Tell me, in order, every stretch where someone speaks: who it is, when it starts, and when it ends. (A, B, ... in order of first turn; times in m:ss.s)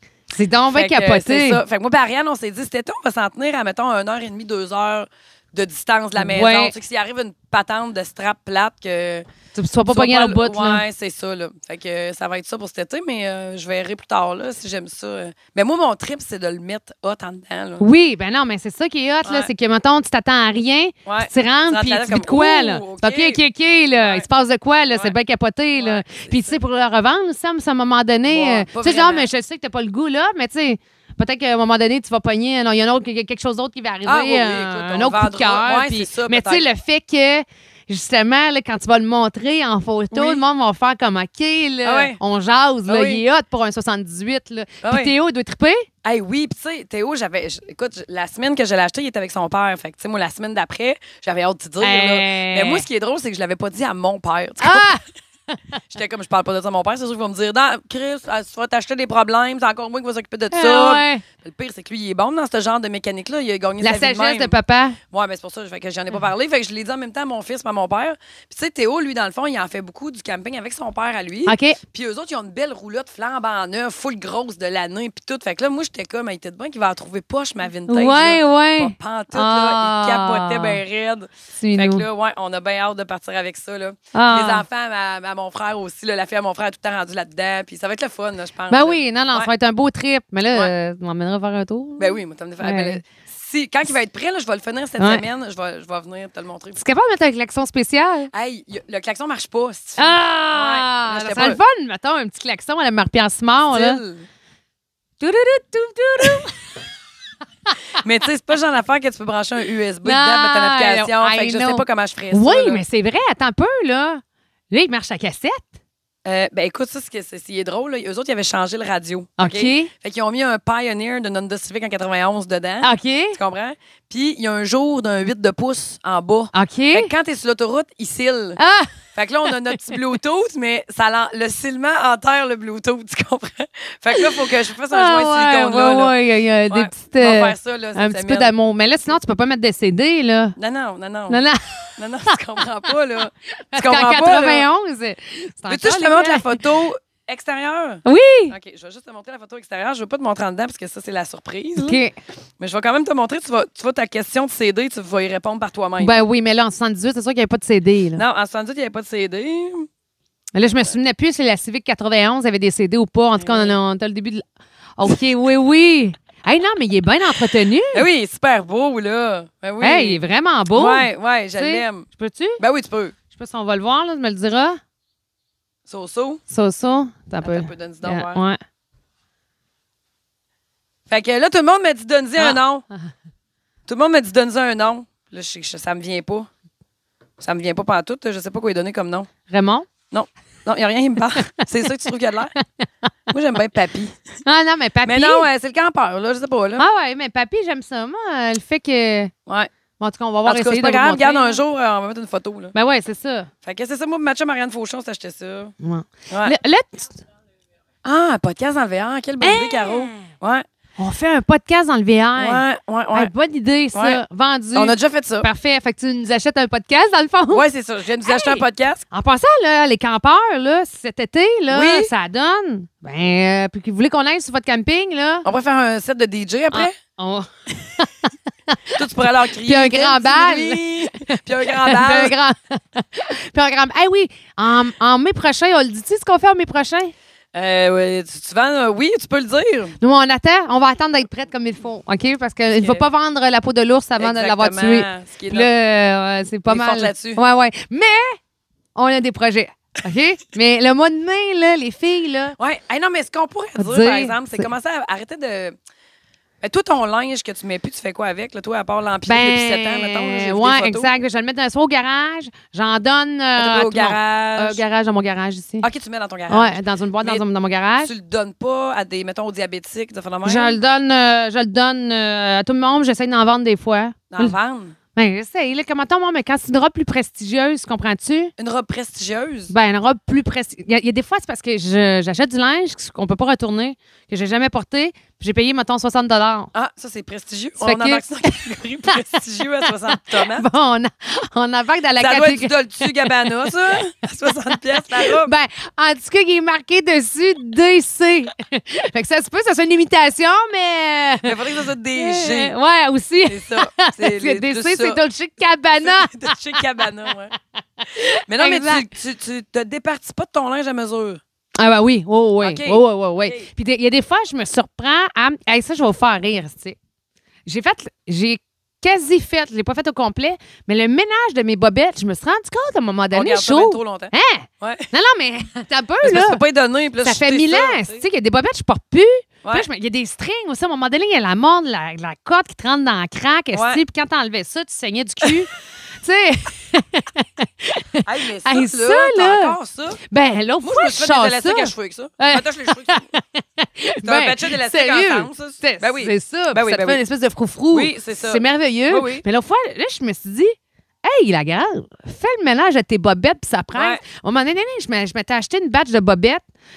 0:00.3-0:01.6 A
0:00.7-0:09.2 B
0:06.2-0:06.7 A
0:09.6-0:10.8 A
0:09.9-0:17.9 B
0:17.8-0:45.9 A
0:19.2-0:19.5 B
0:21.1-0:23.4 B
0:24.0-0:24.2 B
0:24.9-0:25.1 B
0:25.7-0:26.6 B
0:28.3-0:29.3 B
0:34.0-0:36.7 B
0:40.1-0:40.4 B
0:41.8-0:42.2 B
0:42.9-0:43.2 B
0:44.8-0:45.1 B
0:46.0-0:55.0 B
0:51.8-0:52.9 A
0:54.6-0:55.6 A
0:55.9-1:04.5 B
1:00.5-1:01.2 A
1:03.8-1:05.0 A
1:05.1-1:29.5 B
1:11.5-1:11.8 A
1:17.9-1:20.8 A
1:21.5-1:22.0 A
1:24.1-1:24.7 A
1:28.7-1:33.0 A
1:32.0-1:36.8 B
1:35.0-1:35.2 A
1:36.8-1:38.3 A
1:38.3-1:41.6 B
1:40.0-1:44.0 A
1:43.6-1:44.3 B
1:45.2-1:46.6 A
1:48.0-1:52.8 B
1:50.0-1:55.7 A
1:56.2-2:08.6 B
1:59.4-1:59.9 A
2:02.8-2:03.4 A
2:06.5-2:07.1 A
2:08.6-2:10.0 A
2:09.1-2:16.2 B
2:14.2-2:20.6 A
2:16.7-2:18.5 B
2:20.6-2:21.4 B
2:21.3-2:22.9 A
2:22.0-2:24.7 B
2:23.7-2:26.6 A
2:25.7-2:32.0 B
2:28.0-2:28.6 A
2:31.8-2:32.1 A
2:32.6-2:36.2 B
2:36.0-2:38.2 A
2:38.2-2:39.9 B
2:40.5-2:44.4 A
2:40.7-2:41.0 B
2:43.4-2:43.8 B
2:45.0-2:48.1 A
2:47.9-2:50.2 B
2:49.8-2:52.6 A
2:50.7-2:52.1 B
2:52.6-2:53.2 B
2:53.3-2:54.8 A
2:55.9-2:56.4 B
2:56.5-2:58.6 A
2:57.4-2:58.4 B
3:01.1-3:02.9 B
3:03.9-3:06.5 B
3:07.4-3:09.3 B
3:09.5-3:09.9 A
3:10.1-3:12.6 B
3:11.3-3:11.7 A
3:12.6-3:13.1 A
3:13.3-3:14.2 B
3:14.4-3:15.5 A
3:15.0-3:16.8 B
3:16.8-3:19.3 A
3:20.0-3:21.6 A
3:20.4-3:22.7 B
3:22.8-3:23.5 A
3:23.6-3:25.7 B
3:25.8-3:27.2 A
3:26.3-3:26.6 B
3:28.0-3:30.6 B
3:29.4-3:30.2 A
3:31.0-3:37.6 A
3:32.4-3:33.3 B
3:33.9-3:34.2 B
3:34.8-3:35.5 B
3:37.5-3:39.1 B
3:38.2-3:45.4 A
3:41.7-3:42.1 B
3:45.4-3:47.0 B
3:46.7-3:57.1 A
3:49.0-3:52.4 B
3:57.5-4:00.0 B
4:00.0-4:08.4 A
4:02.7-4:03.0 B
4:04.2-4:05.7 B
4:06.7-4:07.4 B
4:09.0-4:12.6 A
4:12.6-4:15.8 B
4:13.8-4:14.7 A
4:16.6-4:21.1 B
4:19.3-4:25.9 A
4:23.6-4:24.8 B
4:25.8-4:27.4 B
4:26.5-4:28.1 A
4:28.0-4:30.8 B
4:30.4-4:34.6 A
4:34.3-4:35.0 B
4:35.2-4:38.5 A
4:38.6-4:39.7 B
4:39.7-4:46.7 A
4:46.7-4:50.7 B
4:47.8-4:49.2 A
4:49.8-5:09.1 A
4:52.2-4:55.5 B
5:01.4-5:02.7 B
5:03.5-5:05.2 B
5:06.0-5:07.5 B
5:08.5-5:11.4 B
5:11.8-5:17.0 A
5:12.6-5:13.7 B
5:17.7-5:26.6 A
5:23.3-5:25.1 B
5:26.2-5:28.2 B
5:27.2-5:56.6 A
5:33.7-5:34.0 B
5:38.2-5:40.2 B
5:40.8-5:43.3 B
5:44.2-5:47.2 B
5:47.9-5:49.4 B
5:53.9-5:54.2 B